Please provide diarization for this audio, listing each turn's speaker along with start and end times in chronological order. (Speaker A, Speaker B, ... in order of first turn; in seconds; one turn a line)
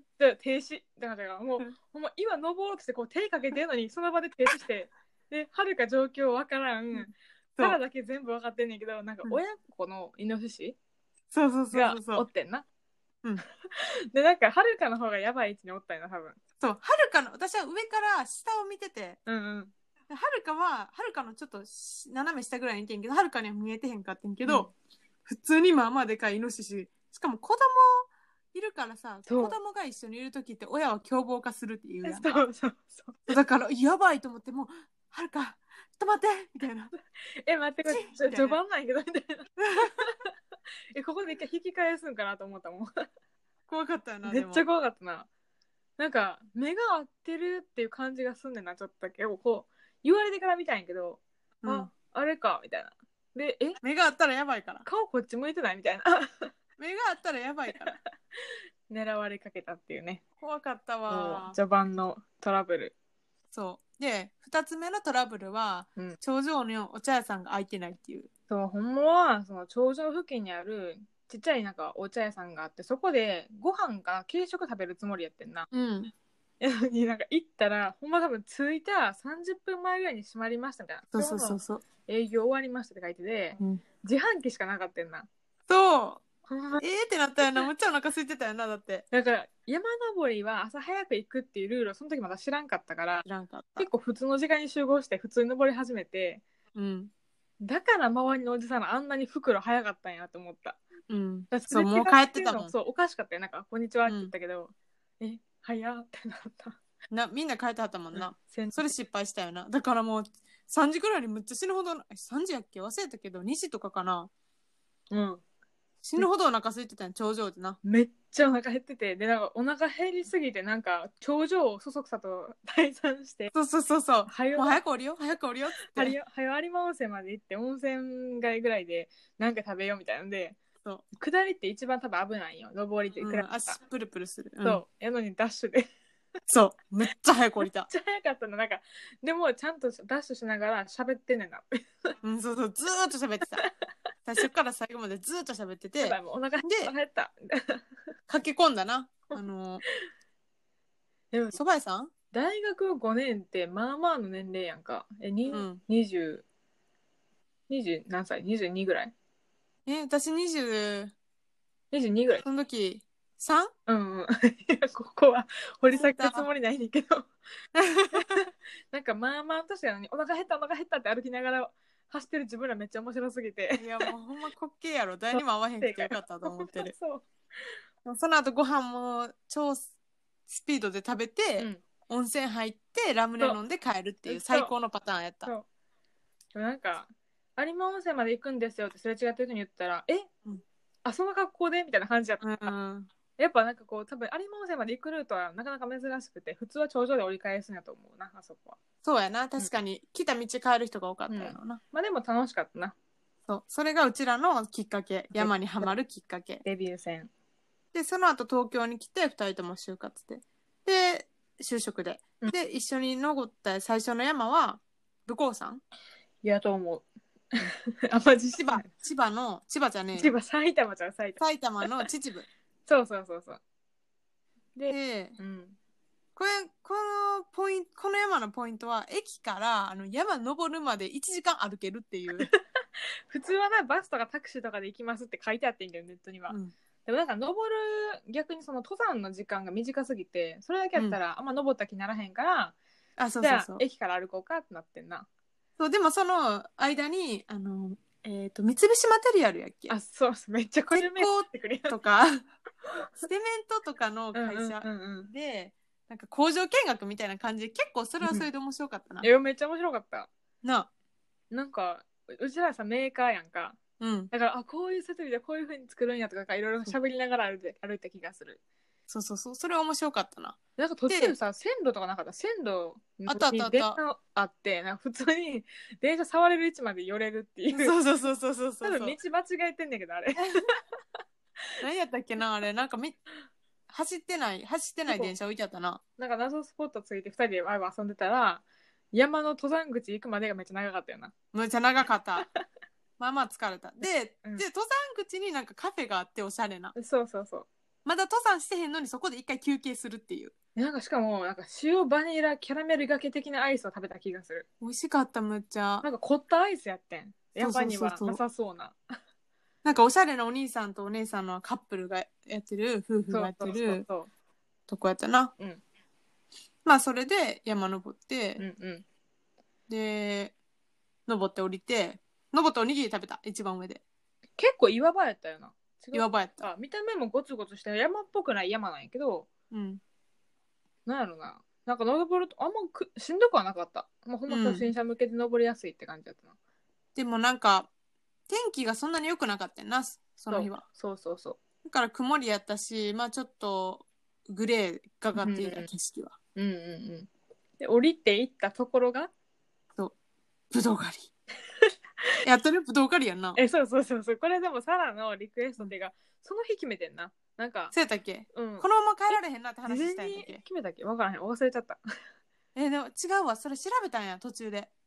Speaker A: 0.2-10.8
Speaker B: 6.9-7.8
Speaker B: 11.3-12.2
Speaker A: 11.7-12.6
Speaker A: 13.6-16.4
Speaker B: 16.6-19.2
Speaker A: 19.2-19.7
Speaker B: 20.1-24.7
Speaker A: 24.4-24.7
Speaker B: 25.2-32.3
Speaker A: 29.3-29.6
Speaker A: 32.0-33.2
Speaker B: 33.3-36.9
Speaker A: 37.4-40.3
Speaker B: 37.9-38.6
Speaker B: 39.6-40.0
Speaker A: 40.9-43.1
Speaker B: 43.7-44.6
Speaker A: 44.2-45.3
Speaker A: 46.0-53.8
Speaker B: 51.6-51.9
Speaker B: 53.8-54.9
Speaker A: 54.8-56.5
Speaker B: 56.8-58.0
Speaker A: 58.9-60.2
Speaker B: 60.4-61.6
Speaker A: 61.1-62.9
Speaker B: 63.5-68.3
Speaker A: 68.5-75.7
Speaker B: 75.7-76.1
Speaker A: 76.6-85.3
Speaker B: 81.1-81.8
Speaker B: 85.7-86.2
Speaker A: 86.5-86.8
Speaker B: 86.8-89.0
Speaker A: 89.1-93.2
Speaker B: 93.2-93.9
Speaker A: 93.8-96.4
Speaker B: 96.7-97.1
Speaker A: 97.6-100.8
Speaker B: 101.1-102.7
Speaker A: 101.5-106.8
Speaker B: 104.0-104.3
Speaker B: 107.1-114.3
Speaker A: 108.1-108.9
Speaker A: 115.1-115.4
Speaker B: 116.0-117.8
Speaker A: 117.8-123.5
Speaker B: 123.5-126.1
Speaker A: 124.3-124.8
Speaker A: 125.8-130.6
Speaker A: 131.2-133.8
Speaker B: 133.2-134.8
Speaker A: 134.6-135.9
Speaker B: 136.5-137.9
Speaker A: 137.9-142.2
Speaker B: 142.2-143.6
Speaker B: 144.3-146.9
Speaker A: 146.0-147.9
Speaker B: 148.3-149.8
Speaker A: 151.3-151.6
Speaker B: 151.5-152.1
Speaker A: 152.3-156.4
Speaker B: 155.5-155.8
Speaker A: 157.7-159.1
Speaker B: 159.8-161.1
Speaker A: 161.9-162.4
Speaker B: 162.4-163.7
Speaker A: 163.9-167.3
Speaker B: 165.9-166.5
Speaker B: 167.7-168.4
Speaker A: 168.1-174.1
Speaker B: 173.8-176.9
Speaker A: 175.3-177.8
Speaker B: 178.0-179.8
Speaker B: 180.5-185.5
Speaker A: 184.3-184.7
Speaker A: 186.5-190.3
Speaker A: 191.0-192.7
Speaker B: 192.4-193.1
Speaker A: 193.4-198.8
Speaker B: 199.0-201.8
Speaker A: 201.3-202.9
Speaker B: 203.5-206.6
Speaker A: 205.3-205.9
Speaker A: 206.6-207.3
Speaker B: 207.9-215.8
Speaker A: 216.4-217.0
Speaker A: 217.6-218.9
Speaker B: 218.6-220.3
Speaker A: 220.2-222.1
Speaker B: 221.4-222.4
Speaker A: 222.9-223.6
Speaker A: 224.8-225.8
Speaker B: 224.9-225.4
Speaker B: 226.3-232.5
Speaker A: 233.3-242.8
Speaker B: 243.2-243.8
Speaker A: 243.4-245.3
Speaker B: 245.8-249.9
Speaker A: 249.9-251.9
Speaker B: 250.9-252.4
Speaker A: 252.8-253.2
Speaker B: 253.2-259.3
Speaker A: 254.3-255.3
Speaker A: 258.2-258.5
Speaker A: 259.2-260.3
Speaker B: 260.6-260.9
Speaker A: 261.5-263.8
Speaker B: 264.0-264.3
Speaker A: 264.3-268.6
Speaker B: 269.1-271.4
Speaker A: 270.8-277.9
Speaker B: 273.3-274.0
Speaker B: 277.7-279.1
Speaker A: 278.8-280.8
Speaker B: 281.8-283.2
Speaker B: 283.9-286.0
Speaker A: 286.2-291.3
Speaker B: 291.5-292.5
Speaker B: 293.2-296.9
Speaker A: 296.9-297.7
Speaker B: 298.0-300.5
Speaker A: 300.8-304.6
Speaker B: 304.8-306.1
Speaker A: 306.0-309.2
Speaker B: 307.6-308.4
Speaker B: 309.8-314.0
Speaker A: 313.3-314.3
Speaker B: 314.9-315.5
Speaker B: 316.8-318.6
Speaker A: 318.6-319.0
Speaker B: 319.9-320.5
Speaker B: 321.3-324.0
Speaker A: 324.6-329.5
Speaker B: 326.1-326.7
Speaker B: 329.7-330.0
Speaker A: 331.1-336.5
Speaker B: 334.5-334.9
Speaker B: 337.1-337.9
Speaker B: 338.5-340.8
Speaker A: 340.5-341.6
Speaker B: 341.8-346.3
Speaker A: 345.4-345.9
Speaker A: 346.5-347.3
Speaker A: 347.8-349.3
Speaker B: 350.7-351.3
Speaker B: 352.4-353.6
Speaker A: 353.5-357.9
Speaker B: 357.9-360.6
Speaker A: 358.5-362.0
Speaker B: 362.7-364.9